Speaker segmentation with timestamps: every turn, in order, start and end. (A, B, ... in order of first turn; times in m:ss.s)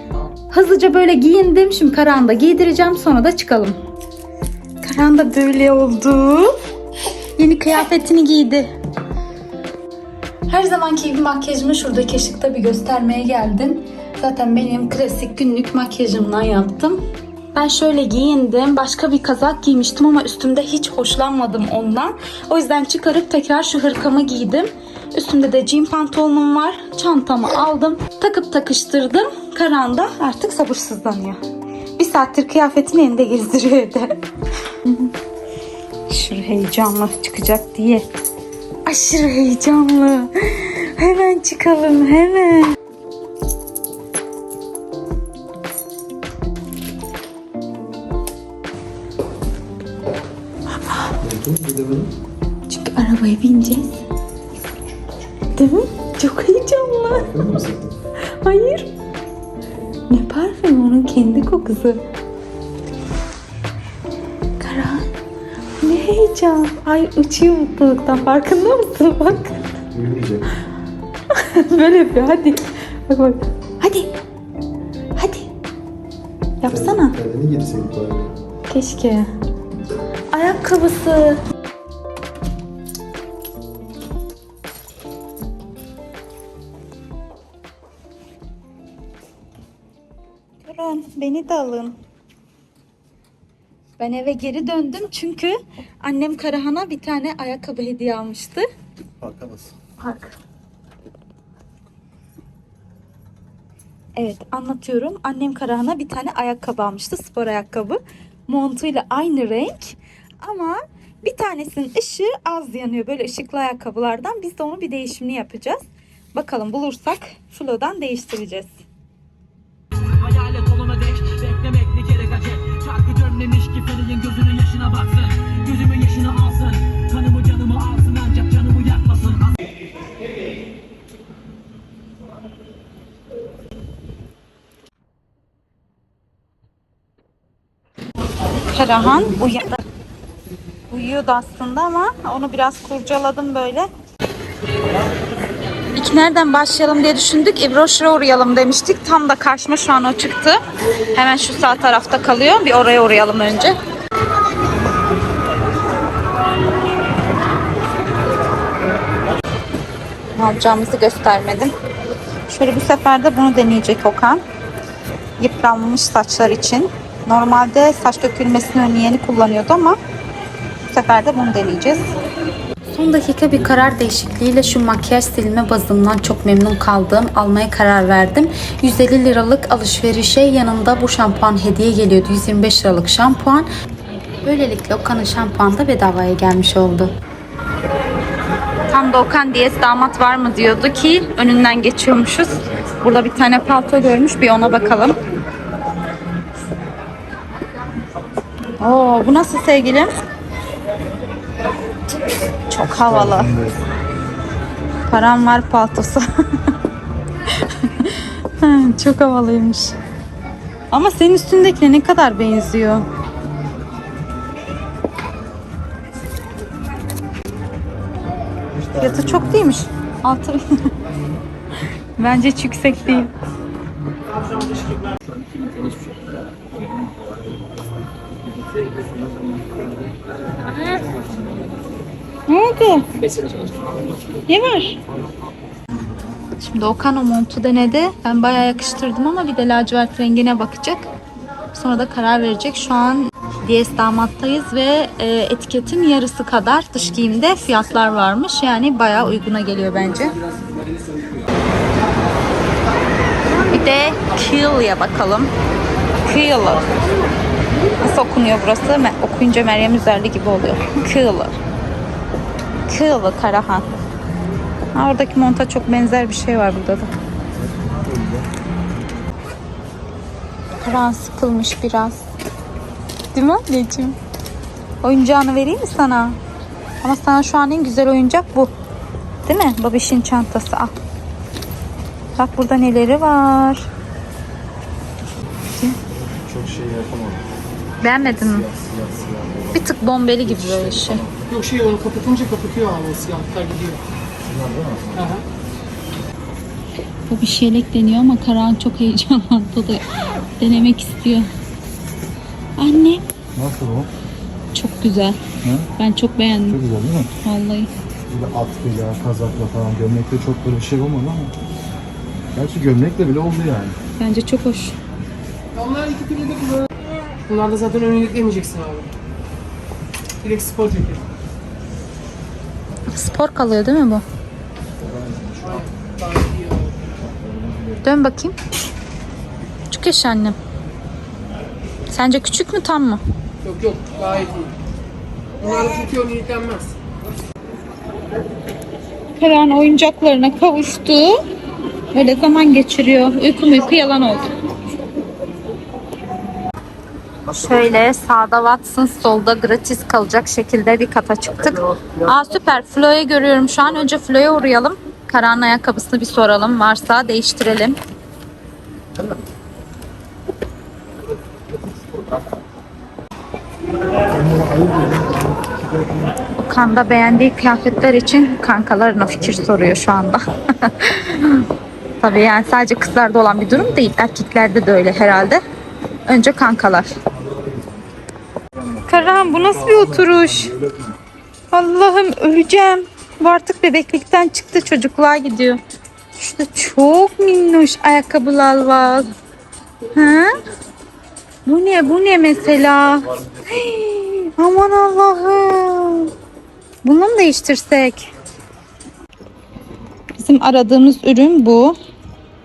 0:00.5-0:03.8 A
0:04.8-0:06.5 A
0:07.4-0:08.7 A
0:10.5-0:17.0 A
0:17.5-0:31.4 A
0:32.0-0:34.2 A
0:34.8-0:35.1 A
0:36.1-0:38.0 A
0:38.8-0:42.8 A
0:51.2-0:52.1 B
0:52.7-0:54.0 A
0:55.5-0:57.3 A
0:57.1-0:57.9 B
0:58.4-0:58.9 A
1:00.1-1:02.0 A
1:04.6-1:05.1 A
1:05.8-1:09.6 A
1:09.9-1:10.5 B
1:11.3-1:14.1 A
1:15.2-1:15.5 A
1:16.6-1:17.1 A
1:16.7-1:18.3 B
1:18.7-1:19.3 A
1:20.3-1:21.4 A
1:30.6-1:31.9 A
1:34.0-1:38.7 A
1:39.2-1:39.7 B
1:40.0-1:40.4 A
1:44.2-1:55.8 A
1:56.3-1:58.7 A
2:00.3-2:09.1 C
2:18.7-2:19.8 A
2:20.9-2:23.9 A
2:26.0-2:30.6 A
2:31.1-2:33.8 A
2:40.4-2:41.7 A
2:42.5-2:44.4 A
2:45.4-2:50.0 A
2:50.9-2:52.1 A
2:52.9-3:03.7 A
3:04.4-3:07.1 A
3:08.9-3:15.2 A
3:18.8-3:20.1 A
3:22.7-3:23.5 A
3:23.0-3:23.8 B
3:25.1-3:26.2 A
3:27.6-3:30.0 A
3:30.9-3:33.1 A
3:38.7-3:39.7 B
3:39.0-3:40.8 A
3:42.2-3:43.3 A
3:52.5-3:53.1 A
3:54.5-3:55.0 A
3:56.6-4:01.1 A
4:01.7-4:10.4 A
4:13.7-4:15.5 A
4:16.3-4:16.8 A
4:18.0-4:21.5 A
4:22.9-4:23.9 A
4:24.9-4:27.1 A
4:27.5-4:28.5 B
4:30.8-4:32.2 A
4:33.3-4:34.2 A
4:35.0-4:36.4 A
4:37.0-4:38.7 A
4:39.4-4:40.9 A
4:42.4-4:43.9 A
4:46.1-4:47.4 B
4:48.0-4:48.7 A
4:48.2-4:51.5 B
4:49.7-4:51.2 A
4:51.5-4:54.0 D
4:54.4-4:55.3 B
4:55.1-4:55.4 D
4:57.3-5:00.0 A
5:00.6-5:01.5 A
5:02.8-5:03.2 A
5:03.6-5:04.1 B
5:04.7-5:05.4 A
5:05.6-5:05.9 B
5:06.0-5:06.8 A
5:06.7-5:07.3 B
5:07.4-5:07.9 A
5:08.3-5:11.5 B
5:12.5-5:14.0 B
5:14.2-5:15.0 A
5:15.7-5:16.9 D
5:17.5-5:19.1 D
5:20.4-5:21.2 D
5:23.1-5:24.2 A
5:25.1-5:25.6 B
5:25.6-5:26.9 D
5:27.3-5:28.0 B
5:28.0-5:28.6 A
5:29.9-5:30.6 A
5:32.1-5:33.2 A
5:33.6-5:34.7 D
5:35.6-5:37.0 D
5:39.4-5:41.4 A
5:42.1-5:44.5 A
5:47.5-5:58.0 A
6:04.3-6:06.1 B
6:06.6-6:11.6 A
6:12.2-6:15.6 A
6:16.3-6:17.1 A
6:19.0-6:20.7 A
6:21.7-6:25.8 A
6:26.4-6:29.3 A
6:30.1-6:30.6 A
6:31.6-6:36.3 A
6:37.0-6:38.3 A
6:40.4-6:42.0 A